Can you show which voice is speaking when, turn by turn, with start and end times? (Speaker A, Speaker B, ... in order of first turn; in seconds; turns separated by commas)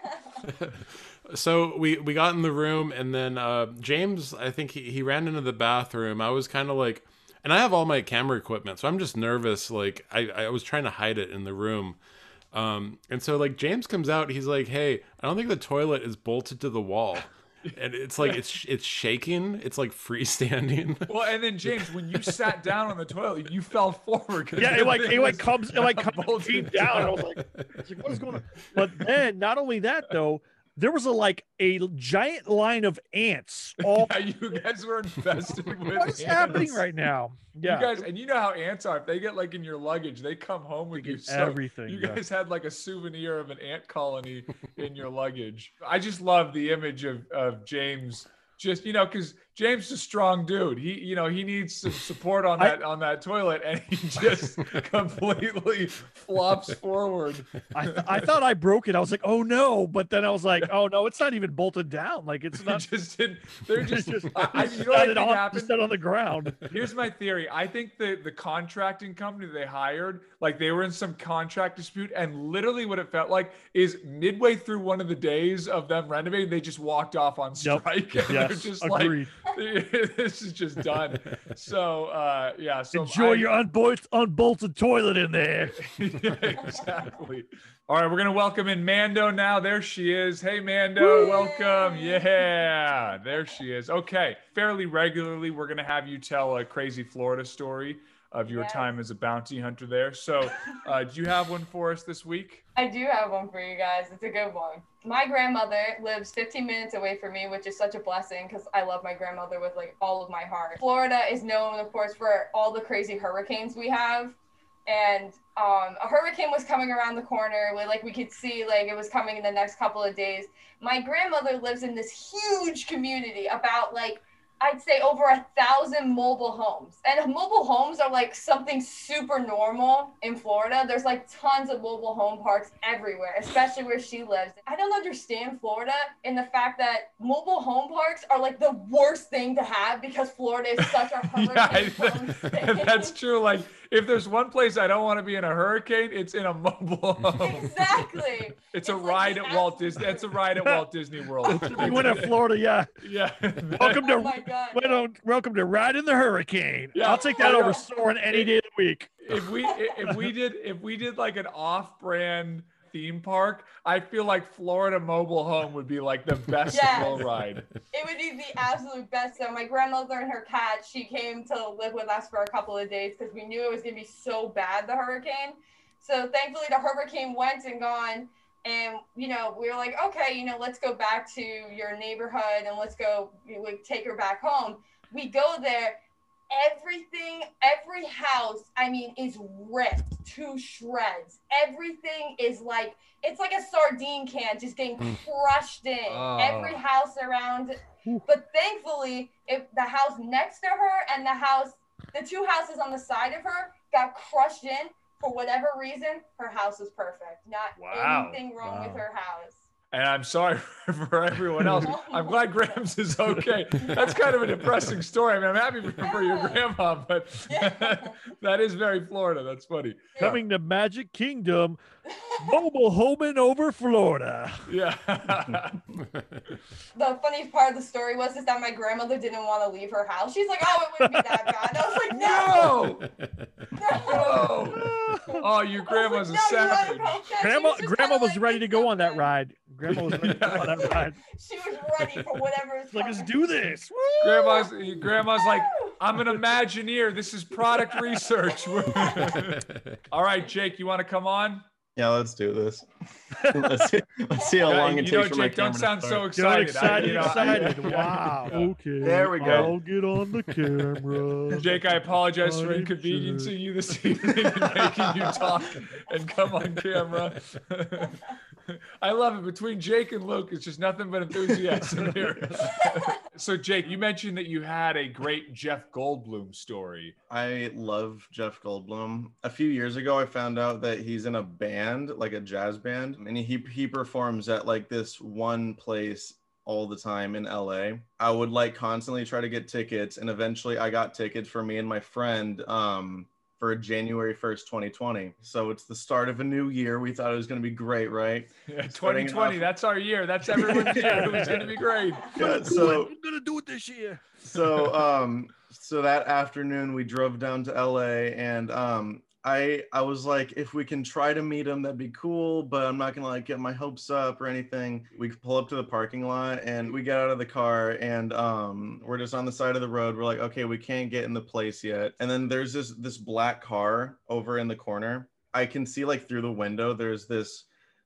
Speaker A: 0.4-12.0, Speaker A: 12.5-21.1, Speaker B: 17.6-18.4, Speaker B: 21.1-27.2, Speaker A: 21.9-22.4, Speaker C: 24.6-34.1, Speaker B: 33.8-36.8, Speaker C: 35.9-38.0, Speaker B: 37.6-58.3, Speaker C: 41.0-42.2, Speaker C: 57.7-62.8, Speaker B: 62.6-65.8, Speaker C: 63.8-66.6, Speaker B: 66.7-83.5, Speaker C: 77.6-79.3, Speaker C: 82.9-85.8, Speaker B: 85.8-102.6, Speaker D: 91.0-92.3, Speaker D: 98.5-98.9, Speaker D: 102.8-143.1, Speaker B: 140.8-148.1, Speaker D: 147.3-150.4, Speaker B: 148.7-152.4, Speaker C: 151.5-152.9, Speaker D: 151.7-152.0, Speaker B: 153.0-154.1, Speaker C: 153.7-159.1, Speaker D: 153.8-155.0, Speaker B: 156.9-158.5, Speaker D: 157.4-157.8, Speaker B: 159.2-167.7, Speaker D: 166.7-167.3, Speaker D: 167.9-186.0, Speaker D: 186.5-209.6, Speaker B: 196.1-196.8, Speaker B: 207.8-208.4, Speaker C: 208.6-209.0, Speaker B: 209.9-220.3, Speaker D: 211.6-212.4, Speaker D: 216.0-216.6, Speaker D: 217.5-218.2, Speaker D: 220.1-220.4, Speaker C: 220.2-221.8, Speaker C: 222.3-224.7, Speaker B: 224.7-225.8, Speaker A: 225.9-226.4, Speaker D: 226.9-232.8, Speaker C: 231.0-231.5, Speaker B: 232.1-233.1, Speaker A: 233.0-233.7, Speaker D: 233.7-239.2, Speaker B: 233.9-237.2, Speaker C: 234.8-235.4, Speaker C: 237.4-241.2, Speaker B: 239.9-240.9, Speaker D: 241.2-243.4, Speaker C: 242.9-244.7, Speaker B: 244.2-251.6, Speaker D: 244.5-245.9, Speaker D: 248.7-249.3, Speaker A: 249.3-250.0, Speaker E: 251.9-252.9, Speaker C: 253.4-253.7, Speaker E: 253.4-256.3, Speaker B: 254.6-258.7, Speaker C: 256.3-261.7, Speaker E: 256.8-257.6, Speaker E: 259.0-259.7, Speaker B: 259.4-259.7, Speaker B: 261.6-277.1, Speaker C: 262.4-263.5, Speaker E: 277.3-299.7, Speaker B: 298.7-302.9, Speaker E: 300.6-301.2, Speaker C: 300.8-301.6, Speaker E: 302.3-303.1, Speaker C: 302.3-304.2, Speaker E: 304.4-327.6